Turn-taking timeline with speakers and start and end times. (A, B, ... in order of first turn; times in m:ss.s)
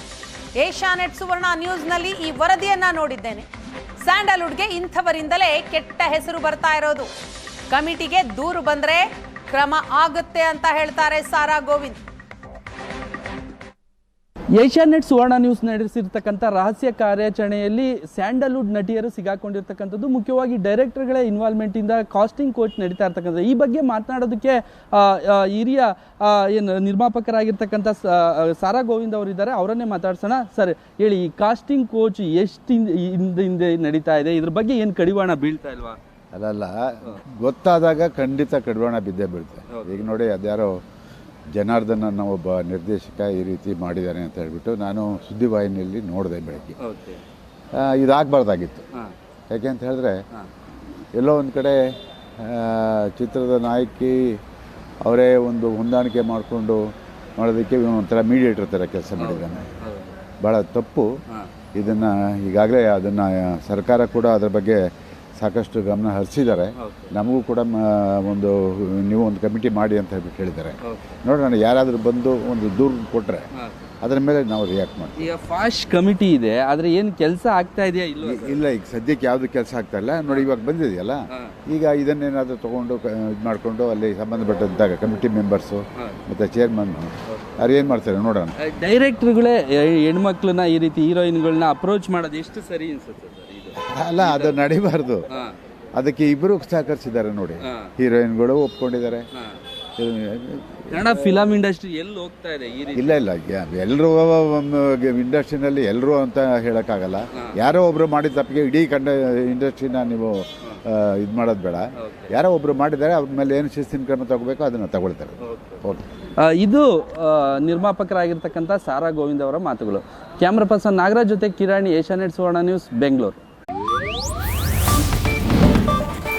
0:00.6-0:03.5 A
0:04.0-0:07.1 A
0:07.7-0:12.0 A
0:14.6-0:36.0 B
0:36.3-0:40.8 C
0:39.7-0:40.0 B
0:41.5-0:46.8 C
0:46.8-0:47.2 B
0:47.7-0:48.8 C
0:49.5-0:50.2 C
0:51.1-0:54.4 C
0:55.0-0:59.7 C
0:59.2-1:00.2 B
1:00.4-1:01.1 C
1:01.8-1:13.5 C
1:06.8-1:07.1 B
1:14.0-1:15.3 C
1:15.2-1:18.6 B
1:18.2-1:28.6 C
1:28.6-1:34.6 B
1:33.8-1:35.3 C
1:36.0-1:39.3 C
1:37.6-1:37.9 B
1:40.0-1:41.1 C
1:40.9-1:43.2 B
1:43.0-1:56.0 C
1:52.0-1:52.3 B
1:55.4-1:55.8 B
1:56.4-2:03.4 B